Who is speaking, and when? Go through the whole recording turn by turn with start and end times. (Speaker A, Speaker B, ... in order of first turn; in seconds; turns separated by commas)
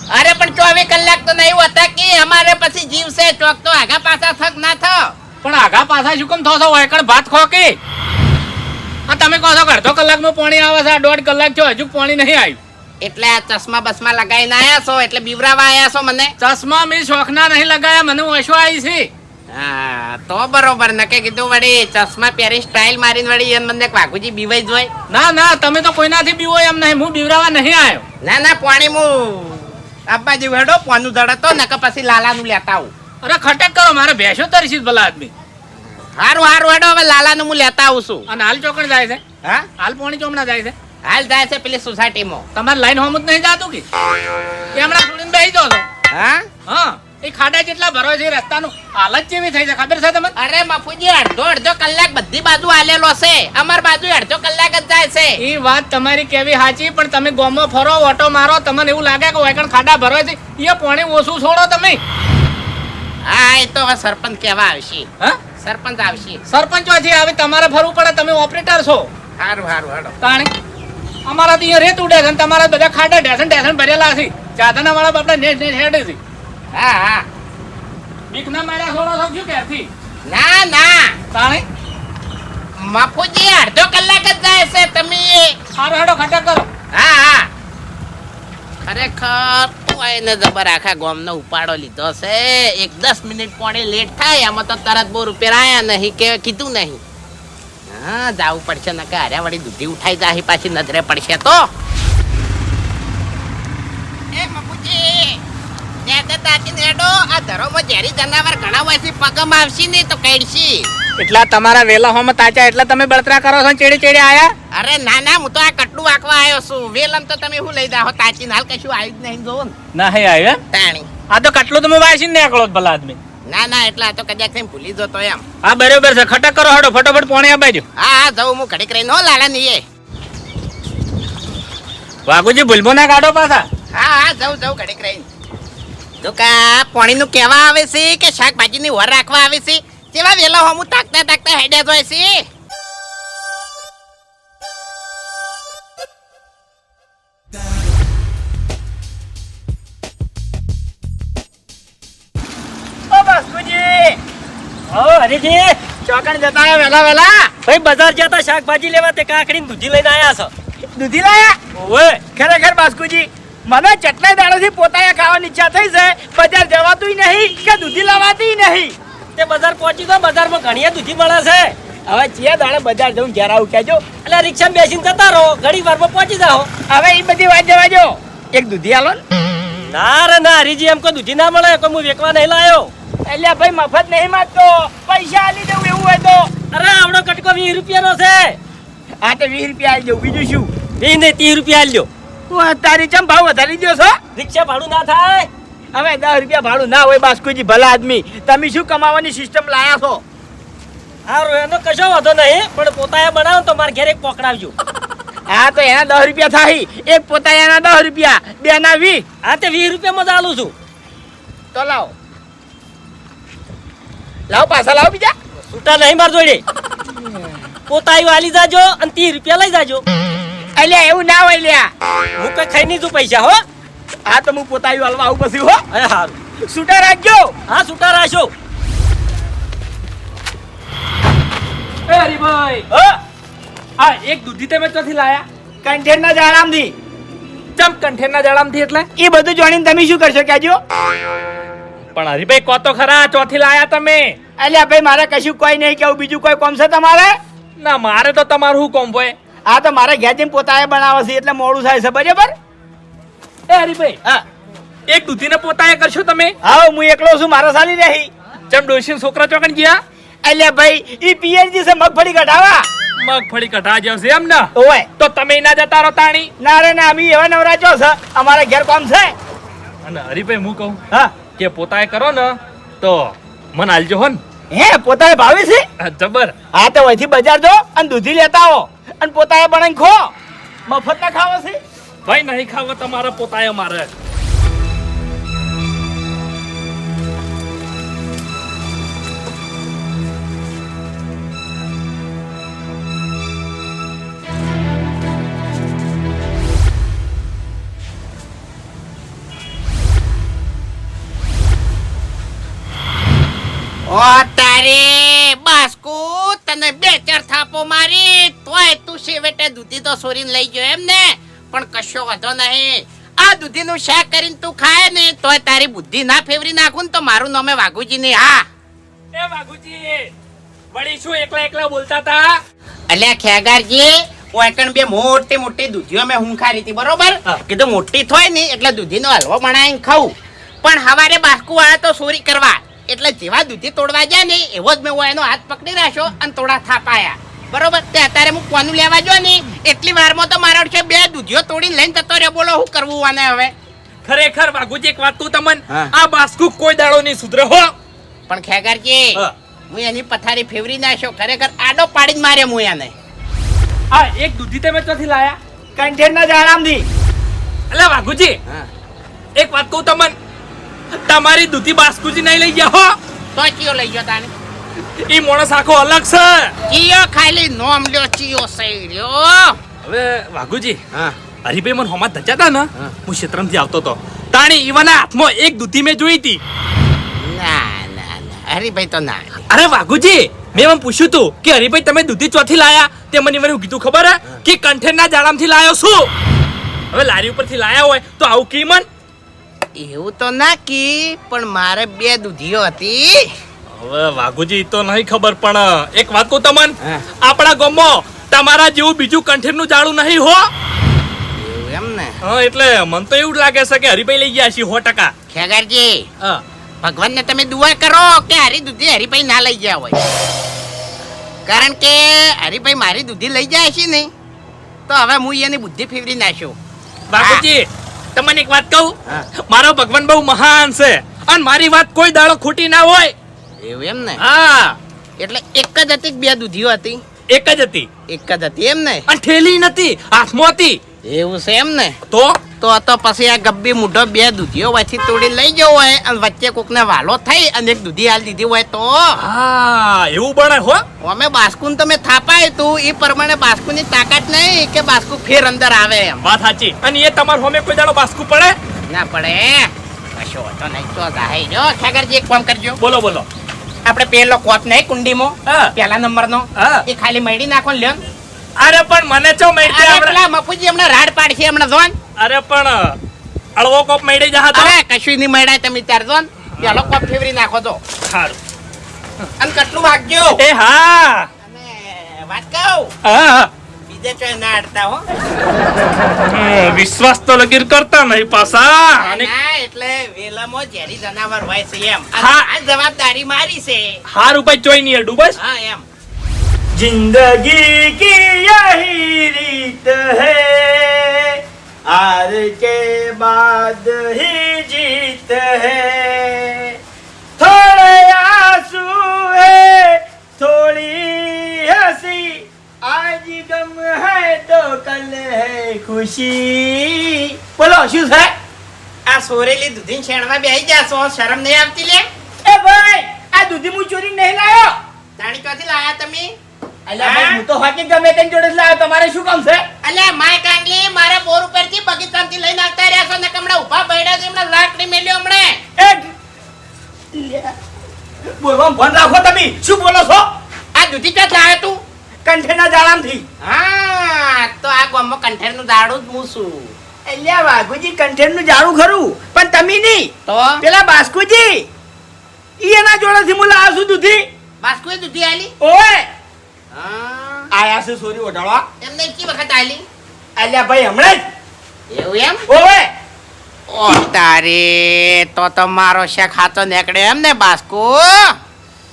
Speaker A: 0.1-5.1, Speaker B: 5.4-7.8, Speaker B: 9.1-12.6, Speaker A: 13.0-16.3, Speaker B: 16.4-19.1, Speaker A: 19.5-24.9, Speaker B: 25.1-28.0, Speaker A: 28.2-32.9, Speaker B: 33.2-35.3, Speaker A: 36.2-38.2, Speaker B: 38.3-39.2, Speaker B: 39.8-40.7, Speaker A: 41.0-42.5, Speaker B: 42.5-43.8, Speaker B: 44.7-45.9, Speaker A: 46.1-46.5, Speaker B: 46.7-50.3, Speaker A: 50.4-55.4, Speaker B: 55.4-62.0, Speaker A: 63.2-66.4, Speaker B: 66.5-69.1, Speaker A: 69.4-70.1, Speaker B: 70.2-70.5, Speaker B: 71.2-76.2, Speaker A: 76.7-77.2, Speaker B: 78.3-79.9, Speaker A: 80.2-81.2, Speaker B: 81.3-81.6, Speaker A: 82.8-85.5, Speaker B: 85.8-86.7, Speaker A: 86.9-87.5, Speaker A: 88.8-97.0, Speaker A: 97.9-101.7, Speaker A: 104.3-105.4, Speaker A: 106.0-110.9, Speaker B: 111.2-114.5, Speaker A: 114.7-119.8, Speaker B: 119.9-120.6, Speaker A: 120.7-121.1, Speaker B: 121.3-123.2, Speaker A: 123.5-125.4, Speaker B: 125.6-127.8, Speaker A: 128.0-129.8, Speaker B: 132.2-133.7, Speaker A: 133.9-135.2, Speaker A: 136.2-142.4, Speaker C: 153.1-154.2, Speaker D: 154.9-155.8, Speaker C: 156.1-157.5, Speaker D: 157.7-160.5, Speaker C: 160.9-161.6, Speaker D: 161.7-162.2, Speaker C: 162.3-168.9, Speaker D: 169.3-171.7, Speaker C: 172.1-174.0, Speaker D: 174.2-176.7, Speaker C: 176.9-179.2, Speaker D: 179.8-182.9, Speaker C: 183.2-186.5, Speaker D: 186.7-188.6, Speaker C: 189.2-190.7, Speaker D: 191.0-192.1, Speaker C: 192.5-194.2, Speaker D: 194.3-195.5, Speaker C: 195.9-200.2, Speaker D: 201.3-204.7, Speaker C: 205.5-209.2, Speaker D: 209.4-210.7, Speaker A: 211.7-212.1, Speaker C: 214.5-215.3, Speaker D: 215.7-216.6, Speaker D: 217.9-220.0, Speaker C: 220.8-221.9, Speaker D: 222.3-223.6, Speaker C: 224.2-225.8, Speaker D: 225.9-226.3, Speaker C: 226.6-227.5, Speaker D: 227.7-228.5, Speaker E: 232.1-232.9, Speaker C: 232.9-233.2, Speaker E: 234.0-235.4, Speaker C: 235.8-236.9, Speaker E: 237.8-239.1, Speaker C: 239.2-240.8, Speaker E: 242.1-244.4, Speaker C: 244.6-247.4, Speaker E: 247.8-249.3, Speaker C: 249.7-252.5, Speaker E: 253.7-254.2, Speaker E: 255.1-256.5, Speaker C: 256.6-258.3, Speaker E: 258.7-260.0, Speaker C: 260.4-262.9, Speaker E: 263.2-266.5, Speaker C: 264.7-265.1, Speaker C: 266.6-269.3, Speaker E: 270.0-271.0, Speaker E: 271.6-274.4, Speaker C: 274.7-275.9, Speaker E: 276.0-276.5, Speaker C: 276.7-280.3, Speaker C: 280.9-281.8, Speaker E: 282.2-284.1, Speaker A: 304.1-318.6, Speaker E: 319.3-320.3, Speaker E: 320.9-322.6, Speaker A: 323.1-343.7, Speaker E: 344.2-347.9, Speaker A: 348.5-353.1, Speaker E: 354.1-355.6, Speaker C: 356.0-357.1, Speaker E: 357.9-358.6, Speaker E: 359.5-360.3, Speaker E: 361.1-363.2, Speaker A: 363.6-364.5, Speaker E: 365.0-366.7, Speaker A: 366.9-369.8, Speaker E: 370.0-371.0, Speaker E: 371.6-376.6, Speaker A: 377.4-379.7, Speaker E: 379.7-386.3, Speaker E: 387.1-389.1, Speaker A: 389.9-393.5, Speaker E: 393.9-400.7, Speaker A: 401.6-402.4, Speaker E: 402.4-405.3, Speaker A: 405.5-406.3, Speaker A: 407.0-410.2, Speaker A: 411.6-414.3, Speaker A: 415.1-416.8, Speaker E: 417.3-423.3, Speaker A: 417.4-417.6, Speaker A: 423.8-424.4, Speaker E: 424.4-425.0, Speaker A: 425.4-427.2, Speaker E: 427.5-428.1, Speaker A: 428.3-429.2, Speaker E: 429.3-431.0, Speaker A: 431.2-432.2, Speaker E: 432.3-432.6, Speaker A: 432.8-439.4, Speaker E: 439.4-441.0, Speaker A: 441.2-446.4, Speaker E: 446.4-448.8, Speaker A: 449.1-453.0, Speaker E: 453.0-453.5, Speaker A: 454.0-458.2, Speaker E: 455.7-455.9, Speaker E: 456.8-457.0, Speaker E: 458.8-460.4, Speaker A: 459.9-462.1, Speaker E: 462.4-463.2, Speaker E: 463.8-464.9, Speaker A: 464.7-468.0, Speaker E: 468.3-468.6, Speaker A: 469.6-470.6, Speaker E: 470.6-471.5, Speaker A: 471.6-473.1, Speaker E: 473.2-473.7, Speaker A: 474.1-475.2, Speaker E: 476.4-479.5, Speaker A: 479.2-484.2, Speaker E: 482.4-482.7, Speaker E: 484.3-485.6, Speaker A: 485.6-486.0, Speaker C: 486.9-496.9, Speaker C: 497.6-508.5, Speaker A: 509.2-512.3, Speaker C: 512.6-514.9, Speaker A: 515.4-516.5, Speaker C: 517.1-519.9, Speaker A: 517.2-517.6, Speaker A: 520.0-525.8, Speaker C: 526.0-526.3, Speaker C: 527.3-527.7, Speaker C: 528.6-530.5, Speaker A: 530.9-532.0, Speaker C: 532.5-533.4, Speaker A: 533.6-536.9, Speaker C: 537.3-541.9, Speaker A: 540.5-540.8, Speaker C: 542.8-544.5, Speaker A: 544.8-545.7, Speaker C: 545.8-546.3, Speaker A: 546.9-547.7, Speaker C: 547.7-548.8, Speaker A: 549.0-550.0, Speaker C: 550.6-551.4, Speaker A: 552.1-552.6, Speaker C: 552.7-553.1, Speaker A: 553.9-558.6